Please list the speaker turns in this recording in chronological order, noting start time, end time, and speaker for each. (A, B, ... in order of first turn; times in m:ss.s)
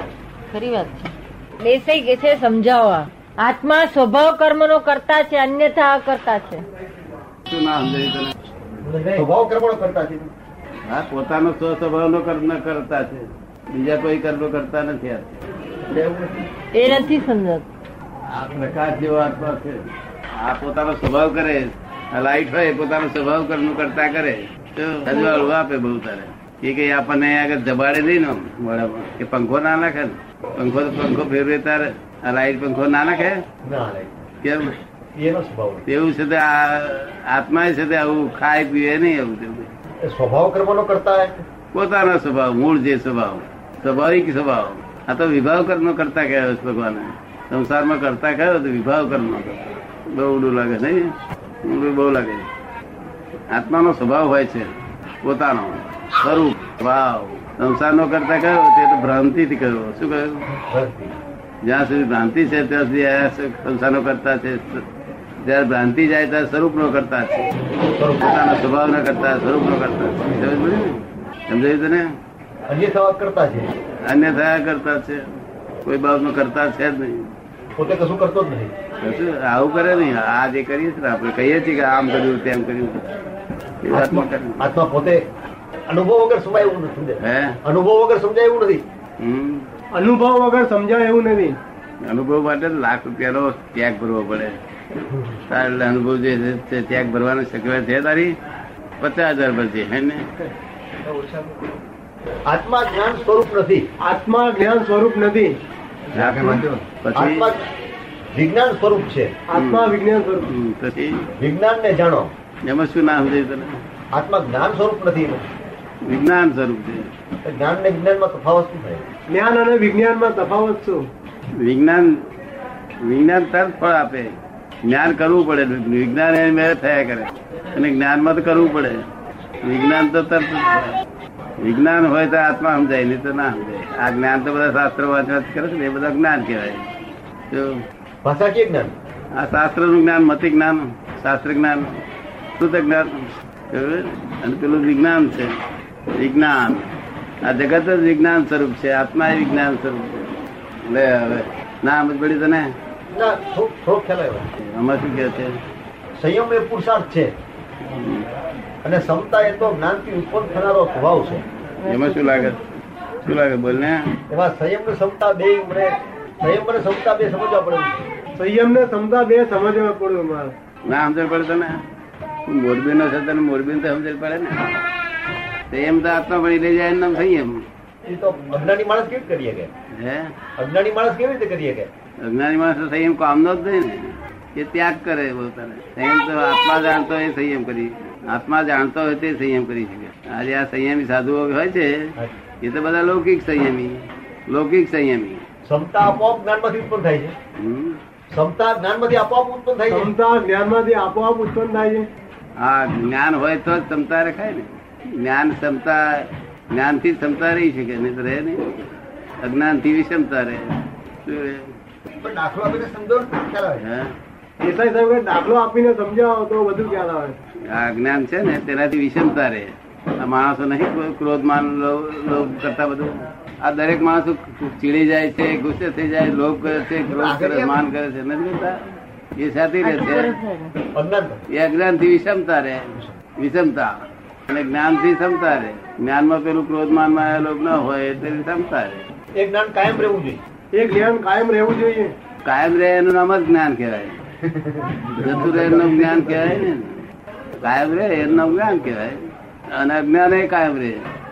0:00.5-0:06.6 A
0:07.5-0:08.3 B
0:08.9-0:10.3 C
0:10.8-0:15.4 B
0:15.9-0:16.3 C
0:16.7-0:17.6 A
0:18.3-0:19.8 B
0:20.4-0:33.4 B
0:33.6-0:34.2 C
0:34.4-0:34.7 B
0:35.2-0:35.8 C
0:35.8-0:39.7 B
0:40.0-0:41.4 C
0:41.7-0:51.1 B
0:51.6-0:52.5 B
0:53.5-0:54.7 B
0:55.2-1:00.4 B
1:00.6-1:01.2 C
1:01.6-1:04.8 B
1:05.4-1:07.5 B
1:07.9-1:08.4 C
1:08.2-1:12.1 B
1:12.7-1:13.7 C
1:14.0-1:15.2 B
1:15.8-1:17.3 B
1:17.8-1:18.7 C
1:19.0-1:23.1 B
1:23.8-1:24.7 B
1:23.9-1:25.2 C
1:25.9-1:28.8 C
1:27.2-1:27.6 B
1:29.2-1:29.7 B
1:29.9-1:31.6 D
1:32.0-1:34.6 B
1:35.5-1:38.4 B
1:39.0-1:40.2 B
1:41.0-1:41.5 D
1:42.4-1:43.8 C
1:44.0-1:45.6 D
1:46.1-1:47.5 B
1:46.1-1:47.6 C
1:48.3-1:49.4 C
1:49.5-1:50.5 D
1:49.5-1:49.9 B
1:50.4-1:51.3 B
1:51.4-1:52.3 C
1:52.6-1:53.8 B
1:54.1-1:55.5 C
1:56.0-1:57.1 B
1:57.4-1:59.0 C
1:59.3-2:01.1 D
2:01.6-2:02.1 B
2:03.0-2:04.3 B
2:04.8-2:09.0 B
2:09.6-2:11.0 B
2:11.6-2:16.9 B
2:18.2-2:18.9 C
2:19.3-2:22.0 B
2:22.6-2:25.5 B
2:26.2-2:26.9 B
2:27.4-2:32.7 B
2:33.1-2:34.5 C
2:34.6-2:35.6 B
2:36.2-2:37.3 C
2:37.9-2:38.3 B
2:38.8-2:41.4 C
2:41.8-2:42.6 B
2:43.2-2:44.1 B
2:44.3-2:48.1 C
2:48.4-2:50.5 D
2:50.8-2:51.8 B
2:52.5-2:54.6 B
2:55.7-2:57.6 B
2:58.0-2:59.7 C
2:59.9-3:00.3 B
3:00.6-3:01.9 C
3:02.2-3:15.4 B
3:15.6-3:17.3 C
3:17.6-3:18.0 B
3:18.3-3:20.1 C
3:19.9-3:22.1 D
3:22.6-3:28.7 B
3:29.4-3:31.7 B
3:32.2-3:33.8 C
3:33.8-3:34.1 B
3:34.6-3:37.4 D
3:37.7-3:50.3 B
3:47.0-3:47.8 C
3:49.8-3:50.7 A
3:50.9-3:51.4 C
3:51.5-3:59.1 B
3:59.3-4:00.4 C
4:00.7-4:02.1 D
4:02.4-4:04.2 B
4:04.4-4:06.7 C
4:05.2-4:07.0 B
4:07.6-4:11.1 B